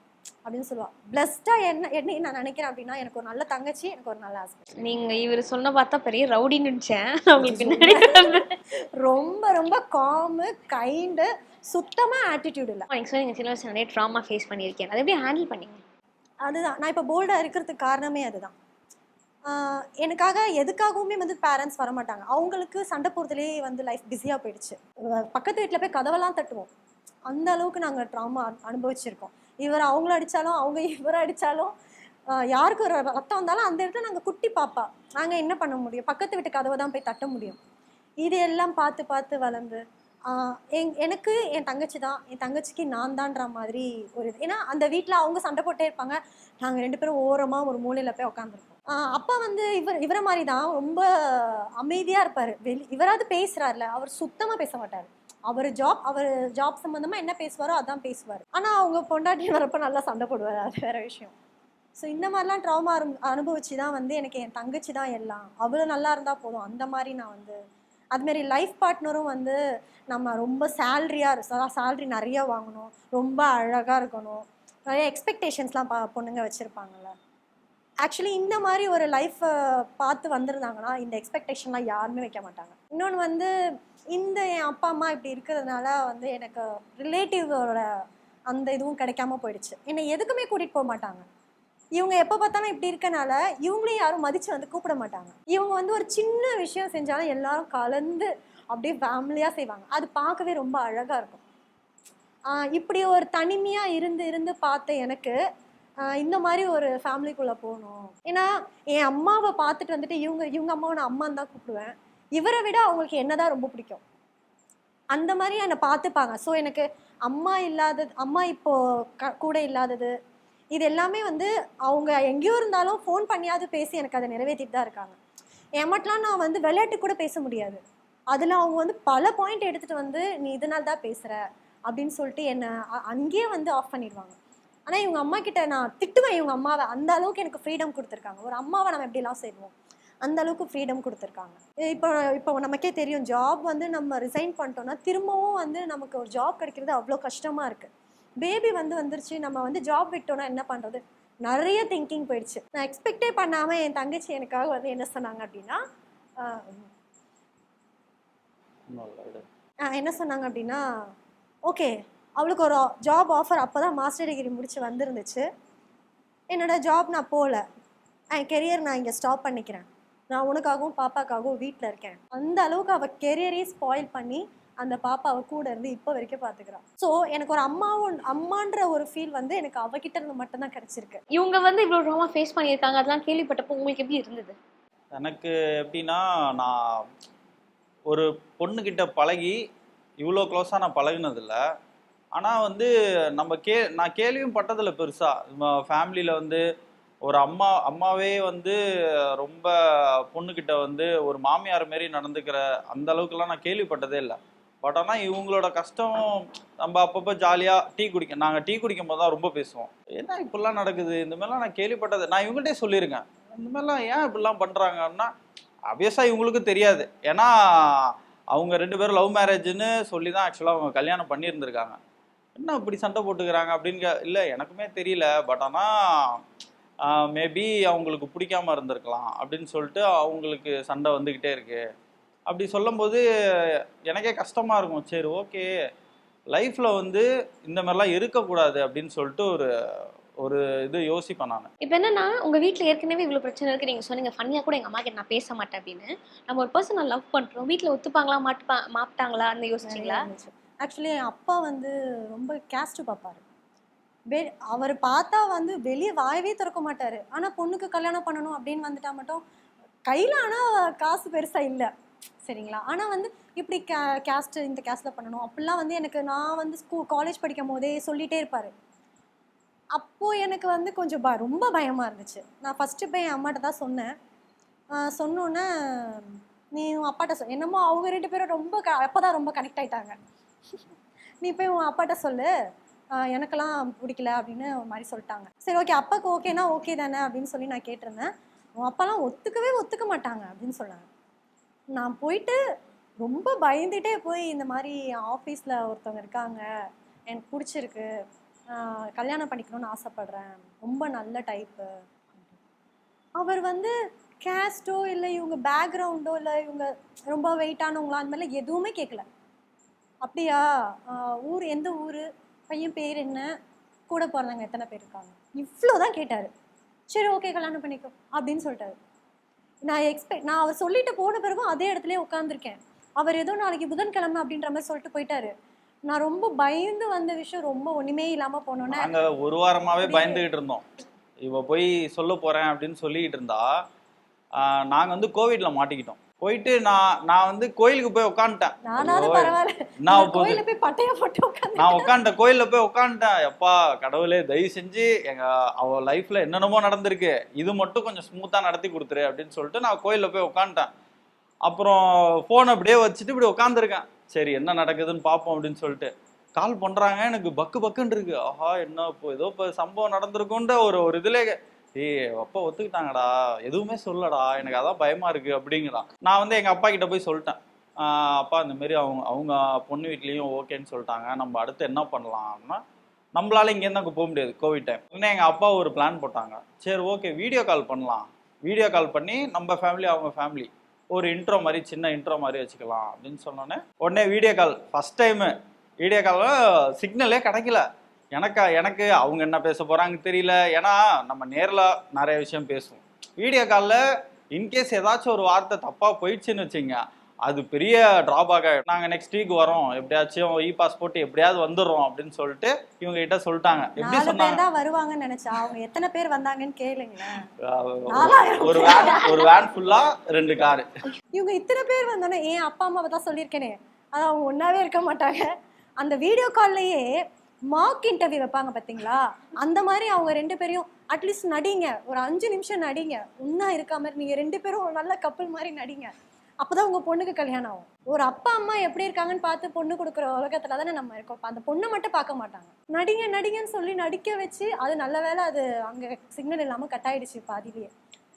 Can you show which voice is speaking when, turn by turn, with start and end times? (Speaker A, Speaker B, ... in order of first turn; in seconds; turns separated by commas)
Speaker A: 0.5-4.6, Speaker B: 4.8-8.5, Speaker A: 7.4-8.4, Speaker A: 9.0-12.9, Speaker B: 12.9-15.8, Speaker A: 16.4-18.5, Speaker A: 19.5-26.7, Speaker A: 27.3-31.7, Speaker A: 32.3-37.6, Speaker A: 38.2-61.3, Speaker A: 62.0-67.6, Speaker A: 68.1-69.6, Speaker A: 70.1-77.1, Speaker A: 78.0-83.5, Speaker A: 84.1-87.9, Speaker A: 88.5-91.2, Speaker A: 92.0-101.4, Speaker A: 102.5-105.4, Speaker A: 106.1-114.0, Speaker A: 115.1-120.1, Speaker A: 120.7-125.2, Speaker A: 125.8-134.3, Speaker A: 134.9-139.7, Speaker A: 140.2-147.9, Speaker A: 148.4-155.8, Speaker A: 156.4-156.9, Speaker C: 158.9-159.4, Speaker A: 159.9-160.8, Speaker A: 161.7-165.5, Speaker A: 166.5-167.6, Speaker A: 168.3-181.2, Speaker B: 181.3-184.6, Speaker C: 185.1-186.8, Speaker C: 188.1-189.6, Speaker C: 190.2-191.6, Speaker C: 192.4-196.6, Speaker C: 197.2-198.8, Speaker C: 199.4-215.3, Speaker C: 215.9-222.0, Speaker C: 222.6-226.4, Speaker C: 227.1-231.8, Speaker C: 232.5-233.2, Speaker C: 234.1-235.7, Speaker C: 236.5-239.7, Speaker C: 240.4-241.7, Speaker B: 241.8-250.3, Speaker A: 249.9-253.4, Speaker A: 254.3-259.4, Speaker A: 260.1-261.9, Speaker A: 262.4-268.7, Speaker A: 269.9-274.1, Speaker A: 275.0-280.1, Speaker A: 281.4-282.5, Speaker A: 283.1-291.1, Speaker A: 291.9-292.6, Speaker A: 293.2-296.6, Speaker A: 297.3-298.1, Speaker A: 298.7-302.5, Speaker A: 303.4-303.9, Speaker A: 304.4-309.2, Speaker A: 310.2-313.5, Speaker A: 314.1-316.5, Speaker A: 317.1-319.0, Speaker A: 319.8-325.5, Speaker A: 326.1-329.1, Speaker C: 328.9-330.8, Speaker A: 330.0-330.4, Speaker C: 331.4-333.7, Speaker C: 334.6-340.6, Speaker A: 338.9-342.1, Speaker C: 341.8-350.9, Speaker C: 351.6-372.8, Speaker C: 373.4-394.0, Speaker C: 394.5-404.6, Speaker A: 404.0-407.4, Speaker C: 407.6-410.9, Speaker A: 408.1-409.6, Speaker A: 411.3-415.5, Speaker A: 416.0-417.2, Speaker A: 417.7-426.1, Speaker A: 426.6-437.9